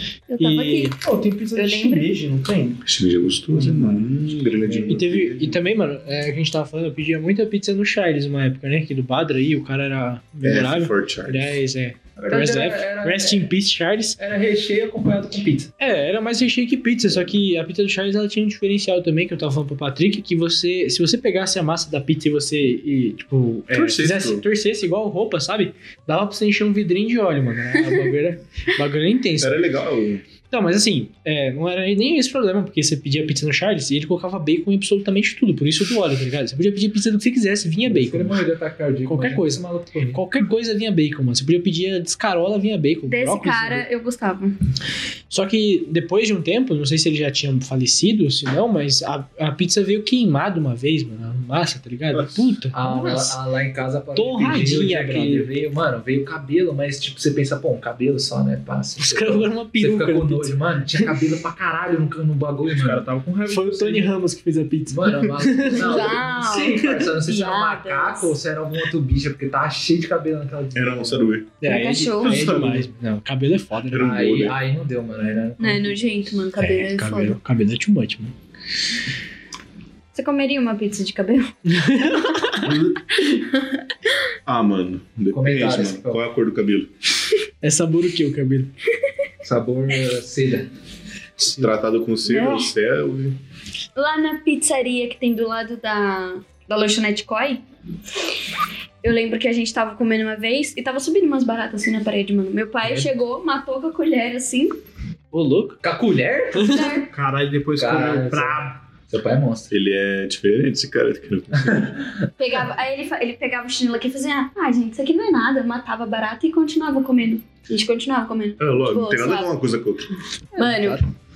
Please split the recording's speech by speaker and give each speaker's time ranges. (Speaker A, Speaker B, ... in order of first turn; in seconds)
Speaker A: 0.3-1.0, 1.6-2.1, 43.1-44.6, 65.7-68.4, 71.6-72.5, 75.6-77.4, 80.1-83.8, 92.2-92.7, 94.0-97.6, 99.0-104.8, 106.6-107.1, 112.4-119.5, 120.6-121.0
Speaker B: 0.5-2.8, 3.6-4.0, 62.7-64.2, 107.1-108.8
Speaker C: 2.8-5.6, 10.4-11.6, 23.7-24.5, 29.4-30.2, 52.1-52.4, 70.7-71.5, 72.3-72.7, 73.9-74.6, 82.6-83.0, 84.5-86.9, 91.4-93.4, 109.7-112.0, 118.6-120.1
Speaker D: 4.7-14.2, 15.8-29.6, 30.5-38.4, 39.1-43.9, 45.3-53.4, 54.1-55.5, 59.0-61.1, 63.5-67.0, 71.6-74.2, 76.6-78.3, 81.7-82.7, 87.6-88.7, 105.3-105.8, 106.6-107.0, 120.5-121.0
Speaker E: 12.2-13.5, 14.2-15.7, 37.9-40.2, 52.7-63.1, 64.9-71.3, 72.3-72.7, 74.0-76.0, 85.3-86.2, 89.4-90.7, 105.8-106.9, 107.8-109.7